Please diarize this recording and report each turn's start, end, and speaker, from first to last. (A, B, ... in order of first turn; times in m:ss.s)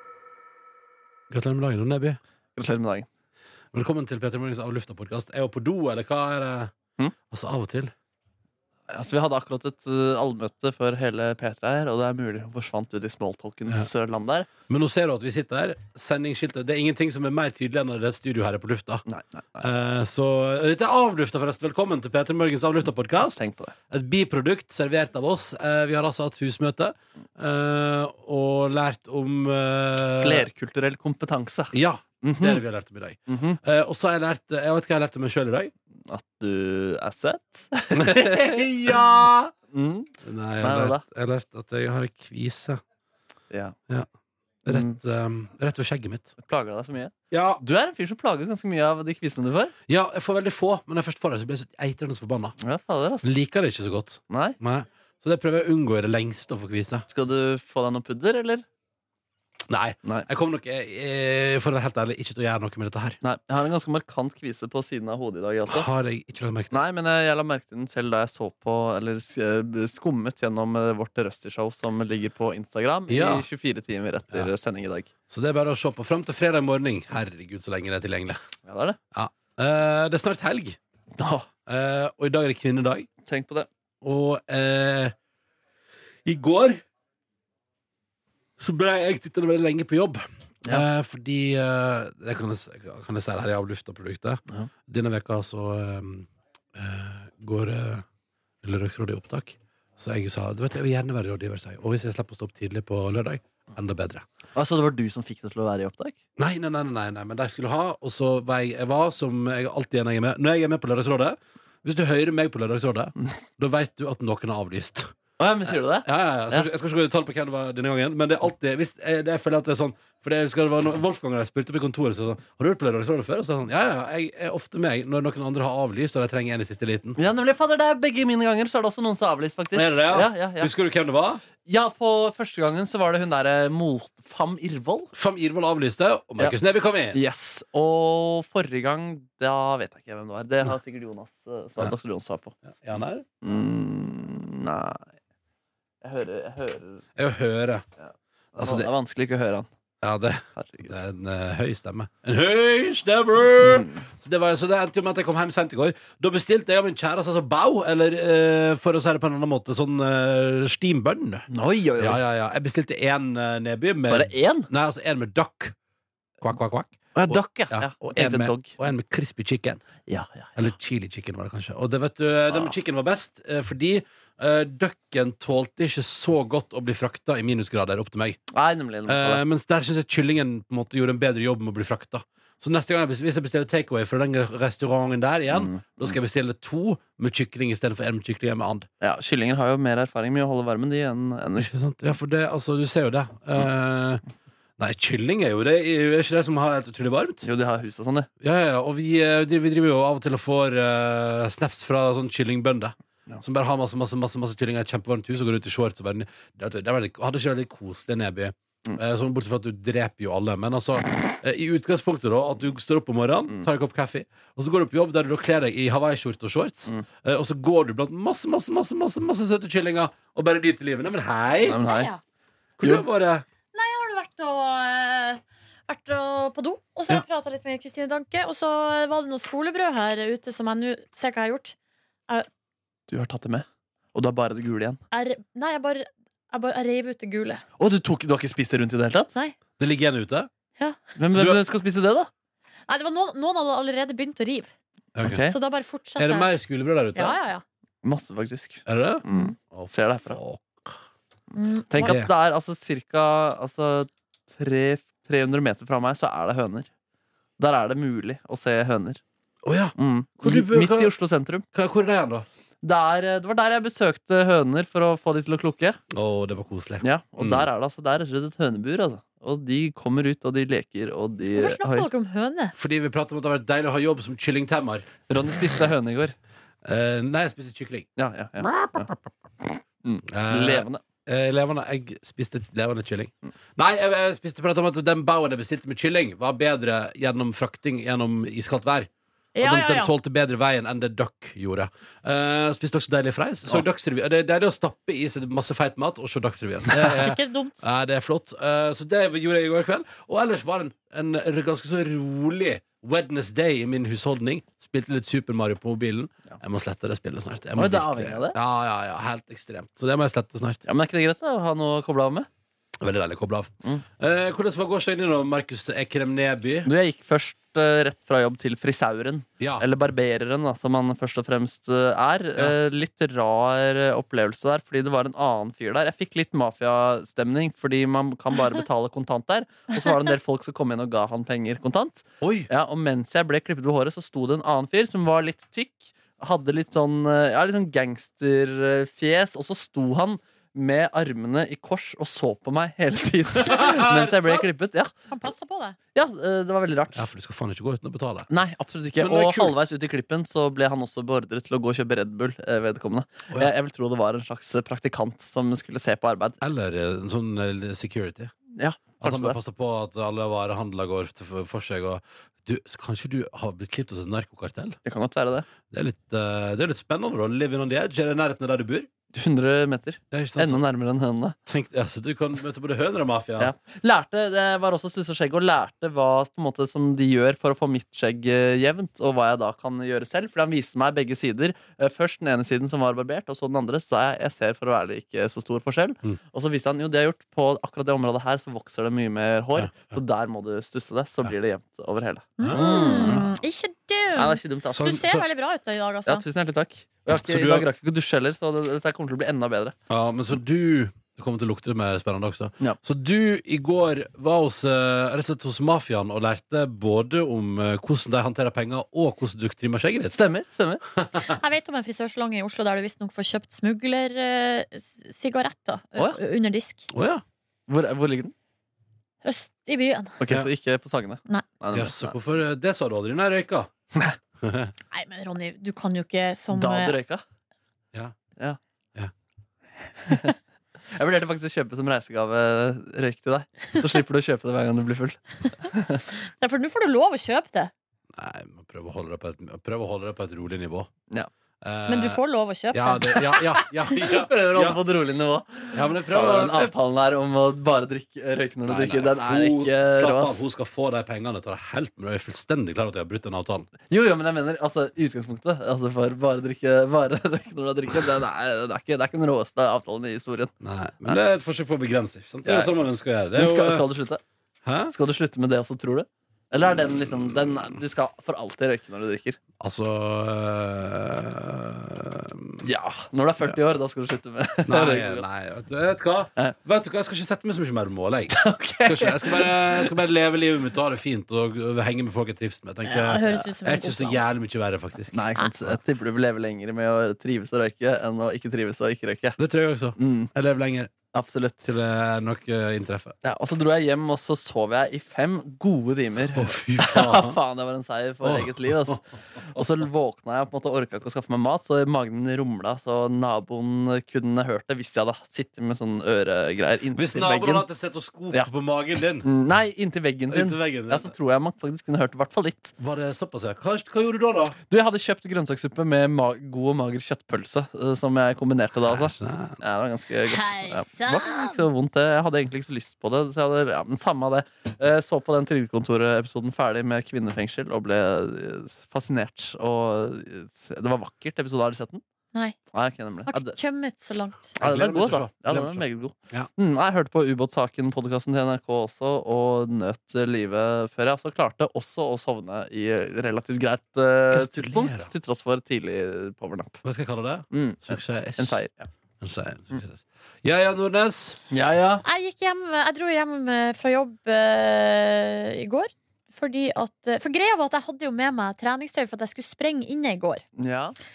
0:01.3-0:02.2 A
0:02.6-0:03.1 B
0:03.7-0:06.7 A
0:07.3-0:07.9 A
0:08.9-0:14.5 B
0:14.7-0:19.0 A
0:19.1-0:19.7 B
0:19.6-0:30.5 A
0:23.2-0:23.7 B
0:30.1-0:32.6 B
0:31.7-0:35.7 A
0:33.3-0:33.6 B
0:36.0-0:39.0 B
0:37.9-0:39.5 A
0:39.7-0:40.1 B
0:40.2-0:42.8 A
0:40.6-0:41.0 B
0:44.6-0:46.3 A
0:44.7-0:45.0 B
0:46.4-0:49.7 B
0:47.3-0:47.6 A
0:49.9-0:52.6 A
0:52.6-0:53.3 B
0:53.2-0:57.0 A
0:54.3-0:54.6 B
0:57.1-0:58.6 B
0:59.7-1:03.2 A
1:03.2-1:05.8 B
1:05.7-1:06.8 A
1:06.7-1:15.1 B
1:13.1-1:13.4 A
1:15.3-1:18.4 A
1:18.6-1:19.0 B
1:19.1-1:20.8 A
1:21.2-1:21.5 B
1:21.7-1:23.1 A
1:23.2-1:23.7 B
1:24.0-1:25.1 A
1:26.2-1:26.8 A
1:28.6-1:38.0 A
1:38.6-1:44.2 A
1:44.5-1:46.2 B
1:46.4-1:55.1 A
1:55.4-1:56.7 B
1:56.0-2:07.2 A
2:07.2-2:10.7 B
2:09.7-2:11.4 A
2:11.6-2:15.1 B
2:15.1-2:17.2 A
2:17.1-2:22.5 B
2:22.7-2:23.3 A
2:23.4-2:25.0 B
2:26.0-2:27.0 B
2:27.2-2:27.8 A
2:28.0-2:29.7 B
2:28.5-2:28.9 A
2:30.0-2:45.7 A
2:30.6-2:31.0 B
2:33.6-2:34.0 B
2:41.5-2:42.2 B
2:44.1-2:44.7 B
2:46.4-2:49.8 A
2:47.1-2:48.7 B
2:50.1-2:50.7 B
2:50.6-2:58.4 A
2:58.5-2:59.4 B
2:59.1-3:08.9 A
3:05.5-3:06.1 B
3:09.0-3:11.7 B
3:11.6-3:14.2 A
3:14.8-3:17.4 A
3:17.4-3:18.3 B
3:18.4-3:41.8 A
3:41.6-3:42.1 B
3:41.8-3:42.2 C
3:42.8-3:43.4 A
3:42.8-3:43.0 B
3:43.7-3:51.8 C
3:53.1-3:55.0 B
3:55.1-3:57.6 C
3:57.8-3:59.4 B
3:59.8-4:00.5 A
4:00.8-4:01.2 C
4:01.2-4:02.3 B
4:01.3-4:01.6 A
4:02.9-4:04.7 C
4:05.1-4:05.4 A
4:05.2-4:05.5 B
4:05.5-4:06.5 C
4:06.2-4:07.4 A
4:07.1-4:07.6 C
4:08.0-4:10.4 B
4:08.8-4:11.0 A
4:11.5-4:12.2 C
4:11.9-4:16.9 B
4:12.0-4:12.3 A
4:17.6-4:19.2 B
4:19.6-4:21.1 A
4:20.0-4:21.6 B
4:21.7-4:22.4 A
4:22.8-4:26.0 B
4:26.1-4:27.7 A
4:27.0-4:32.1 B
4:31.5-4:32.8 C
4:32.7-4:35.1 A
4:35.3-4:36.3 B
4:36.8-4:38.1 A
4:38.2-4:41.0 B
4:38.6-4:39.1 A
4:40.3-5:10.8 A
4:49.5-4:50.1 C
4:57.0-4:57.8 C
5:07.8-5:08.6 B
5:10.8-5:12.5 B
5:13.0-5:16.9 A
5:16.8-5:45.1 B
5:19.6-5:19.8 A
5:32.4-5:32.7 A
5:43.5-5:44.7 A
5:45.3-5:46.0 C
5:46.1-5:47.2 B
5:47.1-5:48.5 A
5:48.5-5:56.6 B
5:49.2-5:49.9 A
5:56.6-5:58.5 A
5:58.8-5:59.6 B
5:59.2-6:05.0 A
6:05.0-6:05.6 B
6:05.9-6:09.1 A
6:09.3-6:11.6 B
6:10.3-6:10.8 A
6:11.6-6:13.7 A
6:13.6-6:33.6 B
6:29.8-6:30.2 A
6:32.6-6:36.4 C
6:32.6-6:33.5 A
6:34.3-6:35.2 B
6:34.9-6:35.4 A
6:36.2-6:39.9 B
6:37.3-6:37.9 A
6:40.1-6:50.4 A
6:50.3-6:51.0 B
6:51.1-6:51.6 A
6:51.4-6:57.1 C
6:57.1-6:57.4 A
6:57.9-6:58.5 B
6:59.4-7:00.4 C
7:00.4-7:02.4 B
7:01.9-7:03.9 A
7:04.6-7:04.9 A
7:05.1-7:07.2 C
7:06.7-7:07.4 B
7:10.2-7:10.5 B
7:11.1-7:16.2 B
7:16.4-7:17.9 C
7:18.4-7:21.1 A
7:21.8-7:22.4 A
7:22.1-7:23.4 C
7:22.9-7:25.0 A
7:23.3-7:30.6 B
7:25.9-7:26.9 A
7:28.8-7:33.9 A
7:34.1-7:40.7 B
7:40.8-7:44.0 A
7:42.6-7:43.0 B
7:43.5-7:44.4 B
7:44.8-7:45.1 A
7:45.1-7:49.6 B
7:47.4-7:47.7 A
7:49.8-7:52.9 A
7:52.8-7:55.4 B
7:54.8-8:06.0 A
7:58.5-8:00.1 B
8:03.0-8:04.4 C
8:05.3-8:09.6 B
8:09.6-8:11.1 A
8:10.2-8:10.5 B
8:11.3-8:11.8 B
8:11.8-8:13.4 A
8:13.4-8:27.9 B
8:16.4-8:17.6 A
8:18.4-8:19.2 A
8:27.1-8:29.5 A
8:29.4-8:32.9 B
8:30.5-8:31.3 A
8:33.0-8:34.8 A
8:34.9-8:52.2 B
8:39.0-8:39.8 A
8:40.4-8:41.8 C
8:52.9-8:53.8 B
8:53.4-8:54.8 C
8:54.8-8:56.7 A
8:54.8-9:07.0 B
9:04.5-9:05.3 A
9:07.0-9:08.8 A
9:07.7-9:09.1 B
9:09.4-9:11.6 A
9:11.7-9:12.2 B
9:12.2-9:20.6 C
9:20.8-9:21.2 B